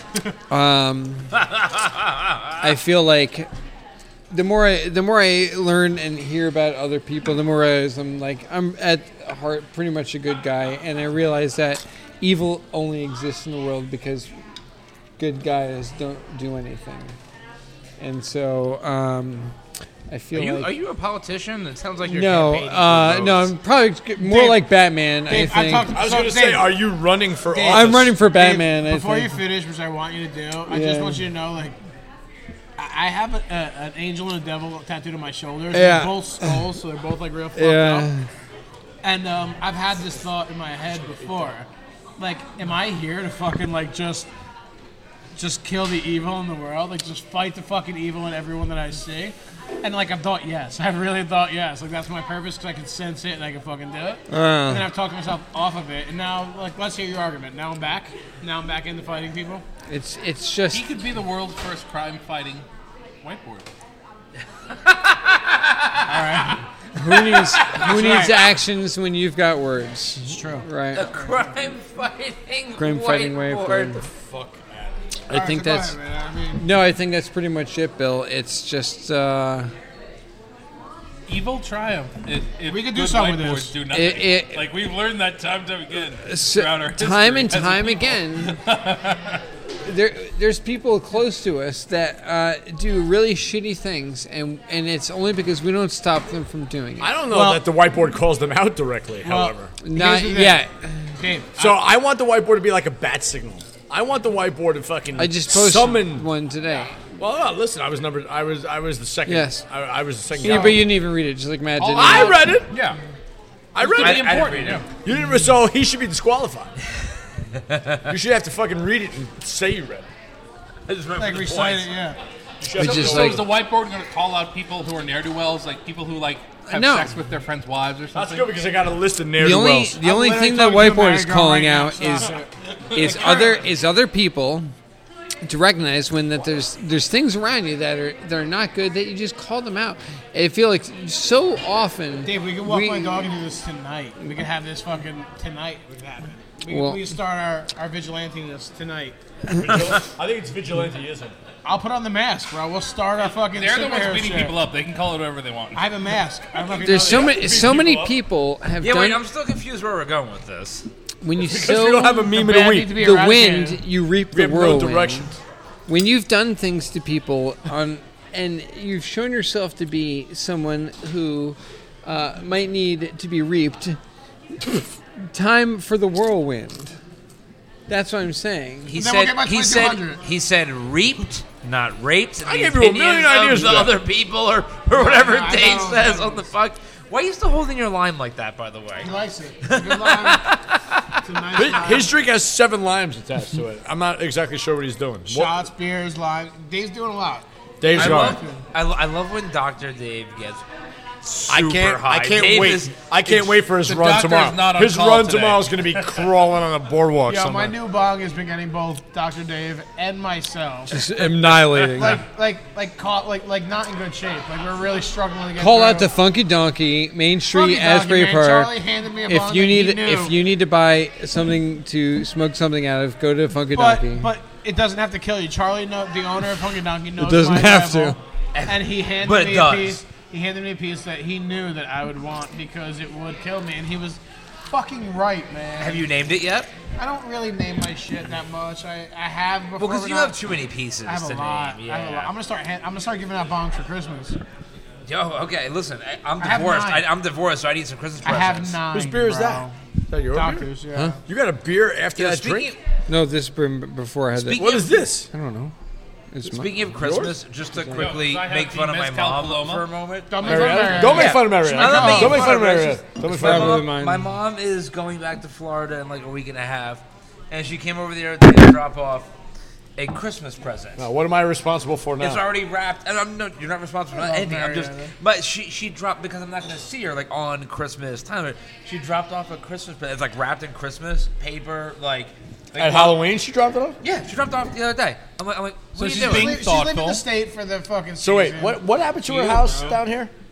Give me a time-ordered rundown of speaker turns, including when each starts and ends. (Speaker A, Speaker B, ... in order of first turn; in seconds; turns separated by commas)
Speaker A: 0.5-1.3, Speaker B: 1.4-2.6, Speaker A: 2.6-3.5, Speaker A: 4.3-14.3, Speaker A: 15.2-17.2, Speaker A: 18.0-19.6, Speaker A: 20.1-20.7, Speaker B: 20.3-23.3, Speaker A: 22.1-25.9, Speaker C: 23.0-23.5, Speaker D: 24.2-24.7, Speaker D: 25.3-26.8, Speaker C: 25.9-28.1, Speaker D: 27.5-31.8, Speaker A: 27.7-29.4, Speaker A: 30.7-31.3, Speaker D: 32.8-38.1, Speaker A: 35.7-36.6, Speaker A: 37.5-38.3, Speaker D: 39.0-44.3, Speaker D: 45.4-59.6, Speaker A: 54.3-54.9, Speaker A: 59.9-60.8, Speaker E: 60.7-62.7, Speaker E: 63.2-63.7, Speaker B: 64.7-66.4, Speaker D: 66.0-66.6, Speaker A: 67.0-71.0, Speaker D: 67.7-68.5, Speaker D: 70.2-71.5, Speaker B: 70.9-74.0, Speaker A: 72.8-74.0, Speaker C: 73.9-75.0, Speaker A: 75.3-76.0, Speaker D: 75.3-76.7, Speaker A: 76.6-79.7, Speaker E: 81.3-89.4, Speaker D: 82.7-83.8, Speaker A: 83.9-84.7, Speaker A: 86.2-88.6, Speaker A: 89.8-97.2, Speaker C: 97.0-99.7, Speaker D: 97.3-97.6, Speaker D: 99.2-100.6, Speaker A: 99.8-101.2, Speaker D: 101.2-101.8, Speaker C: 101.6-106.3, Speaker A: 105.2-107.0, Speaker C: 107.2-110.9, Speaker A: 109.3-109.6, Speaker A: 110.4-112.6, Speaker D: 110.4-110.9, Speaker E: 111.8-113.0, Speaker C: 112.0-112.8, Speaker C: 113.8-116.7, Speaker E: 113.8-114.9, Speaker B: 114.0-114.8, Speaker B: 117.5-118.1, Speaker C: 118.1-120.1, Speaker B: 120.9-121.9, Speaker D: 121.2-122.2, Speaker C: 122.6-123.6, Speaker E: 122.8-128.5, Speaker A: 122.8-123.5, Speaker A: 126.7-127.1, Speaker C: 128.1-130.0, Speaker A: 129.4-132.3, Speaker D: 130.0-133.7, Speaker A: 132.9-134.7, Speaker A: 135.4-143.3, Speaker D: 142.3-149.2, Speaker A: 146.7-147.1, Speaker C: 149.5-151.3, Speaker D: 151.7-154.6, Speaker E: 153.4-155.9, Speaker D: 155.8-157.6, Speaker C: 156.7-158.2, Speaker A: 156.8-159.2, Speaker B: 158.8-160.9, Speaker A: 161.2-162.3, Speaker C: 161.4-162.9, Speaker D: 162.3-163.8, Speaker A: 162.9-165.3, Speaker C: 164.3-165.4, Speaker A: 165.9-174.0, Speaker A: 175.2-177.0, Speaker A: 177.9-178.9, Speaker B: 178.9-189.1, Speaker D: 178.9-180.2, Speaker C: 182.4-184.0, Speaker D: 184.9-186.5, Speaker D: 189.0-190.5, Speaker B: 189.6-191.2, Speaker D: 191.2-192.1, Speaker C: 191.6-195.7, Speaker D: 195.3-198.6, Speaker C: 197.8-198.4, Speaker B: 197.9-200.6, Speaker B: 201.2-203.7, Speaker C: 201.5-207.8, Speaker E: 203.8-205.6, Speaker D: 207.3-211.0, Speaker A: 210.9-212.2, Speaker D: 212.0-216.1, Speaker A: 215.6-218.8, Speaker D: 217.5-220.4, Speaker A: 219.3-224.3, Speaker D: 223.7-236.1, Speaker A: 227.2-228.2, Speaker B: 228.5-230.0, Speaker B: 235.8-236.7, Speaker D: 237.0-244.4, Speaker B: 239.8-242.3, Speaker B: 245.1-248.8, Speaker D: 246.4-247.1, Speaker D: 248.2-249.7, Speaker C: 248.9-250.7, Speaker D: 250.3-251.2, Speaker C: 251.3-252.7, Speaker B: 252.2-252.8, Speaker A: 253.1-254.7, Speaker B: 254.4-254.9, Speaker C: 254.6-255.3, Speaker A: 255.3-255.7, Speaker A: 256.3-256.8, Speaker B: 256.4-269.3, Speaker C: 257.0-257.4, Speaker A: 257.8-258.1, Speaker E: 257.9-259.9, Speaker D: 260.3-262.7, Speaker C: 260.4-263.9, Speaker E: 260.9-261.2, Speaker A: 263.3-264.3, Speaker B: 270.0-271.0, Speaker C: 271.0-272.4, Speaker B: 272.2-283.2, Speaker D: 274.1-275.1, Speaker C: 282.8-284.0, Speaker B: 284.0-286.6, Speaker E: 285.9-287.2, Speaker D: 286.1-290.0, Speaker C: 288.2-290.3